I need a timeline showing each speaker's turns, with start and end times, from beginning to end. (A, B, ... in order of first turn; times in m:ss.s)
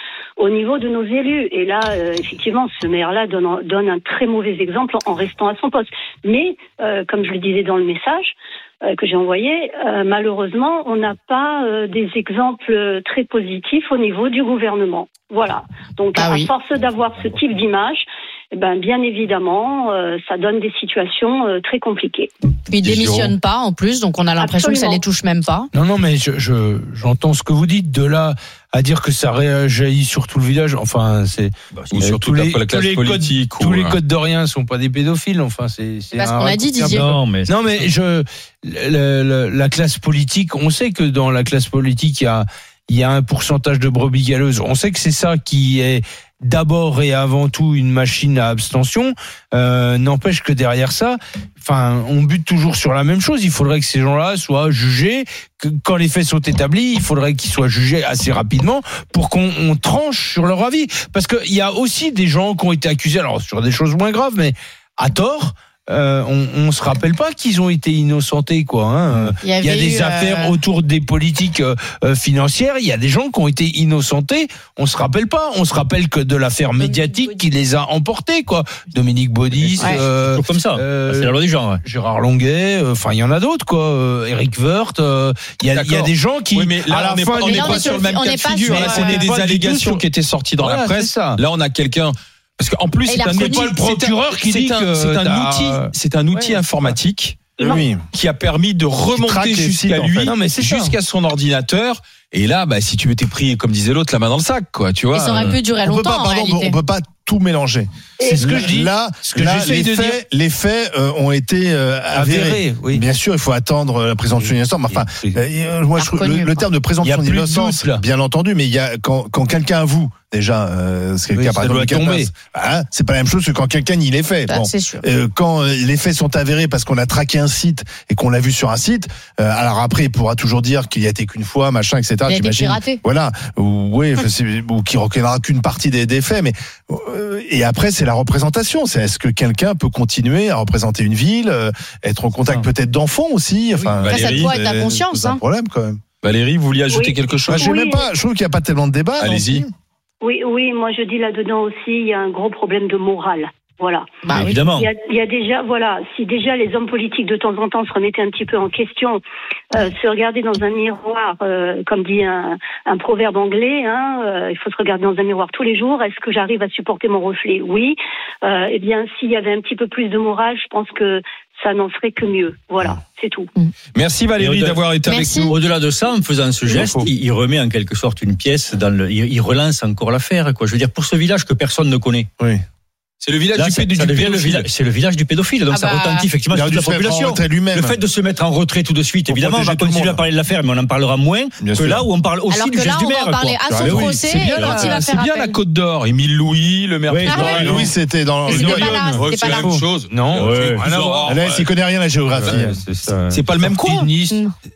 0:00.4-0:22.3 A
0:16.1-0:16.5 B
0:22.7-0:25.7 B
0:22.8-0:23.3 C
0:24.4-0:25.0 A
0:25.7-1:27.8 D
0:31.7-0:32.0 E
0:31.9-0:34.0 C
0:36.1-0:37.1 B
0:36.8-0:37.9 E
1:09.4-1:10.6 B
1:16.8-1:17.4 B
1:19.6-1:21.8 E
1:19.8-1:20.0 B
1:25.7-1:37.4 C
1:27.4-1:29.3 B
1:28.6-1:30.0 D
1:30.6-1:31.4 D
1:33.1-1:33.8 B
1:33.3-1:36.6 D
1:37.6-1:38.0 F
1:38.1-1:45.6 C
1:39.1-1:40.3 F
1:40.3-1:40.9 D
1:45.1-1:46.8 B
1:45.8-2:26.0 F
1:48.2-1:48.9 A
1:48.2-1:50.1 D
1:52.1-1:53.0 D
1:56.0-1:56.6 B
1:57.0-1:58.0 D
2:01.4-2:02.3 D
2:04.5-2:05.0 B
2:12.3-2:13.0 B
2:24.0-2:24.5 C
2:24.0-2:25.4 B
2:26.2-2:27.8 C
2:26.9-2:28.1 A
2:27.5-2:29.7 F
2:29.2-2:29.6 C
2:30.2-2:34.1 A
2:34.2-2:34.6 B
2:34.4-2:34.9 E
2:34.7-2:39.2 A
2:39.7-2:53.5 A
2:53.9-2:55.5 C
2:54.4-2:54.8 E
2:55.0-2:55.5 B
2:55.3-3:02.3 E
2:56.7-2:57.0 C
3:03.2-3:04.7 C
3:03.5-3:15.0 E
3:05.7-3:06.3 B
3:06.5-3:08.0 F
3:09.3-3:10.2 F
3:11.6-3:12.1 F
3:12.5-3:15.6 B
3:13.7-3:14.1 F
3:13.9-3:17.8 C
3:17.1-3:17.9 E
3:17.2-3:17.9 B
3:17.4-3:19.2 F
3:18.4-3:19.8 B
3:18.5-3:21.7 C
3:20.1-3:21.3 D
3:20.3-3:20.8 E
3:21.2-3:22.8 F
3:22.6-3:24.4 D
3:23.3-3:24.0 C
3:23.8-3:24.5 B